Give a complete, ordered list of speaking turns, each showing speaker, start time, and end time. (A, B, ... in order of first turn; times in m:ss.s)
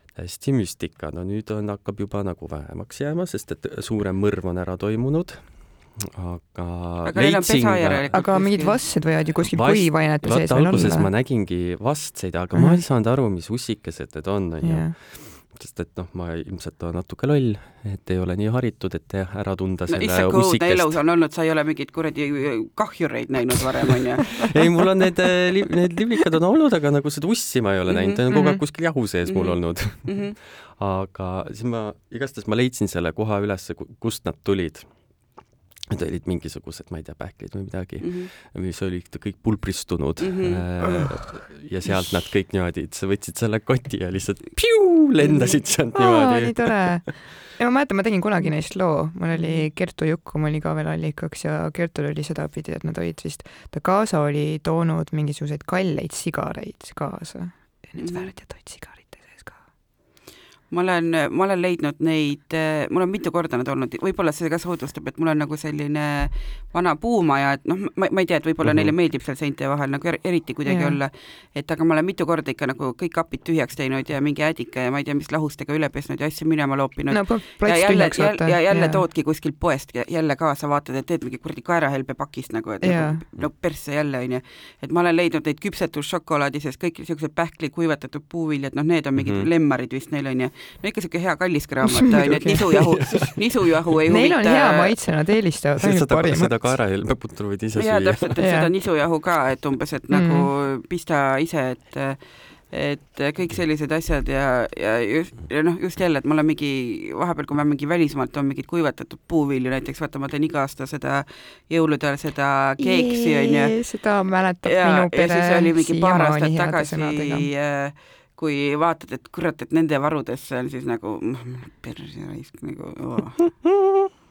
0:00.2-0:08.2 A
0:07.0-0:08.8 B
0:08.1-0:11.1 C
0:09.5-0:21.0 A
0:12.5-0:12.8 C
0:14.6-0:15.0 C
0:19.9-0:24.8 B
0:24.5-0:47.1 A
0:27.9-0:30.4 B
0:38.0-0:38.3 B
0:40.2-0:40.6 B
0:45.2-0:45.6 B
0:46.0-0:59.7 C
0:49.3-0:49.7 B
0:58.0-0:58.3 B
1:00.7-1:35.0 B
1:08.6-1:09.0 A
1:10.7-1:11.0 C
1:17.1-1:19.0 C
1:22.8-1:23.2 C
1:29.2-1:29.5 A
1:32.2-1:32.6 C
1:33.0-1:33.6 A
1:34.1-1:36.7 C
1:35.8-1:38.3 A
1:37.8-1:54.0 B
1:38.4-1:38.7 C
1:40.1-1:40.5 C
1:52.8-1:57.5 C
1:54.6-2:03.5 B